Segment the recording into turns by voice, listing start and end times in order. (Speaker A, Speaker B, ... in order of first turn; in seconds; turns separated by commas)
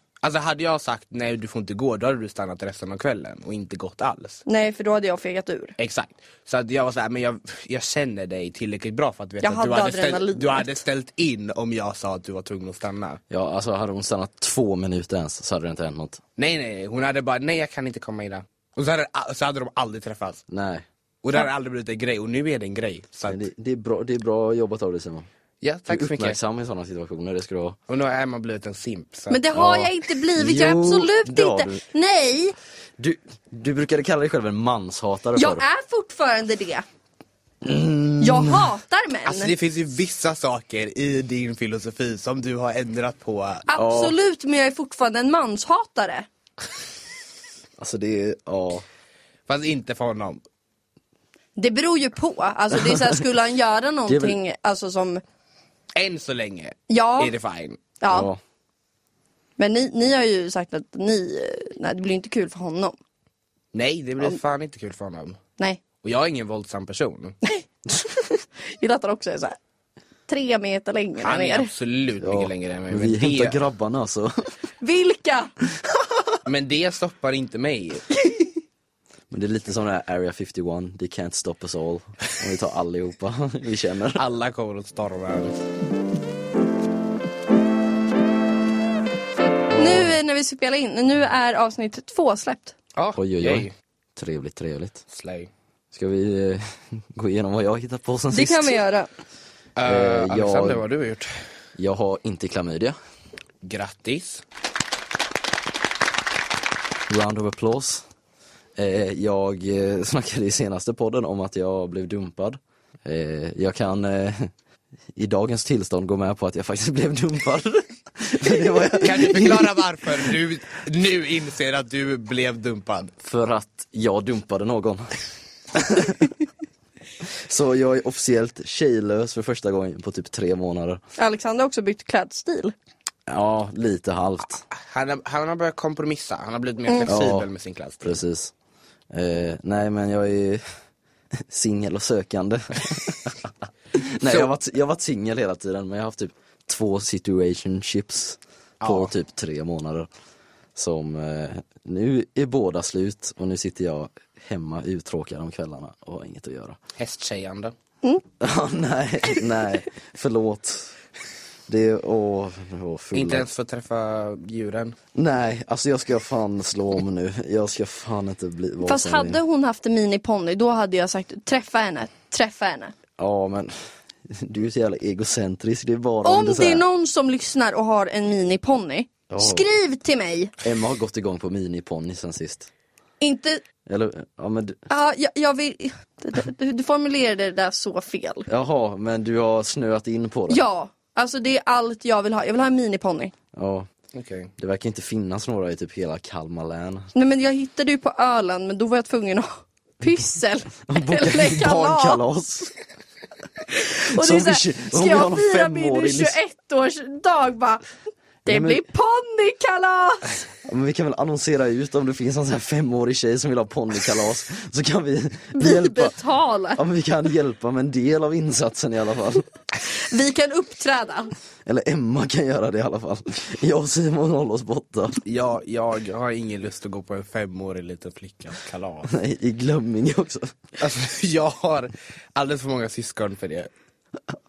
Speaker A: 0.2-4.4, Speaker B: 4.5-5.7, Speaker A: 5.8-13.2, Speaker B: 9.4-10.7, Speaker C: 13.3-16.2, Speaker A: 16.4-20.4, Speaker C: 20.5-20.8, Speaker A: 21.2-23.4, Speaker C: 23.3-25.3, Speaker A: 25.6-26.4, Speaker C: 25.9-27.8, Speaker A: 27.9-29.6, Speaker B: 29.3-32.5, Speaker C: 29.6-31.8, Speaker C: 33.0-35.6, Speaker B: 35.4-36.8, Speaker C: 37.6-38.7, Speaker B: 38.2-39.5, Speaker A: 39.2-43.7, Speaker B: 43.7-46.3, Speaker C: 43.7-44.1, Speaker C: 47.8-48.8, Speaker A: 49.5-50.4, Speaker B: 51.6-55.2, Speaker C: 52.7-53.2, Speaker C: 54.1-54.4, Speaker A: 56.0-57.8, Speaker B: 56.9-57.3, Speaker B: 58.0-58.3, Speaker C: 58.1-58.4, Speaker B: 59.6-63.0, Speaker A: 63.7-65.4, Speaker A: 66.0-67.4, Speaker B: 67.4-69.6, Speaker B: 70.3-71.7, Speaker A: 71.2-73.6, Speaker C: 72.2-74.3, Speaker B: 74.8-75.5, Speaker A: 76.4-78.0, Speaker B: 78.2-78.5, Speaker C: 79.3-84.2, Speaker A: 84.1-85.6, Speaker C: 89.7-90.1, Speaker B: 89.7-92.7, Speaker A: 93.0-93.7, Speaker C: 93.2-95.0, Speaker A: 95.1-95.5, Speaker C: 95.9-98.8, Speaker B: 98.3-99.1, Speaker A: 99.8-101.3, Speaker C: 99.8-100.8, Speaker C: 101.8-102.9, Speaker A: 103.6-104.4, Speaker C: 107.1-108.0, Speaker C: 108.8-114.5, Speaker C: 115.1-119.7, Speaker A: 119.0-123.1, Speaker C: 123.2-125.1, Speaker C: 125.7-126.3, Speaker C: 127.2-131.0, Speaker B: 131.2-132.7, Speaker C: 133.3-134.6, Speaker A: 134.7-138.2, Speaker C: 137.1-137.5, Speaker C: 138.0-138.5, Speaker C: 139.1-140.6, Speaker C: 141.4-150.1, Speaker A: 144.2-144.5, Speaker A: 148.8-149.1, Speaker C: 150.7-156.8, Speaker A: 157.0-157.7, Speaker C: 158.4-160.9, Speaker C: 161.7-163.4, Speaker A: 163.1-165.0, Speaker C: 165.1-169.4, Speaker B: 168.8-172.9, Speaker C: 173.2-173.7, Speaker C: 174.2-176.8, Speaker B: 176.2-180.5, Speaker C: 179.3-179.7, Speaker C: 180.6-182.7, Speaker B: 183.2-183.6, Speaker C: 183.8-184.8, Speaker B: 184.9-188.5, Speaker C: 188.5-190.6, Speaker B: 190.5-193.3, Speaker C: 193.5-193.9, Speaker A: 194.1-194.5, Speaker C: 194.6-197.1, Speaker B: 197.1-202.2, Speaker C: 200.9-202.7, Speaker B: 203.7-207.8, Speaker C: 204.1-206.3, Speaker C: 208.4-208.8, Speaker B: 208.4-210.4, Speaker C: 210.6-216.1, Speaker B: 215.5-216.8, Speaker C: 216.8-219.4, Speaker B: 219.8-221.3, Speaker C: 221.7-225.2, Speaker A: 225.2-229.1, Speaker C: 229.1-230.5, Speaker A: 230.8-233.7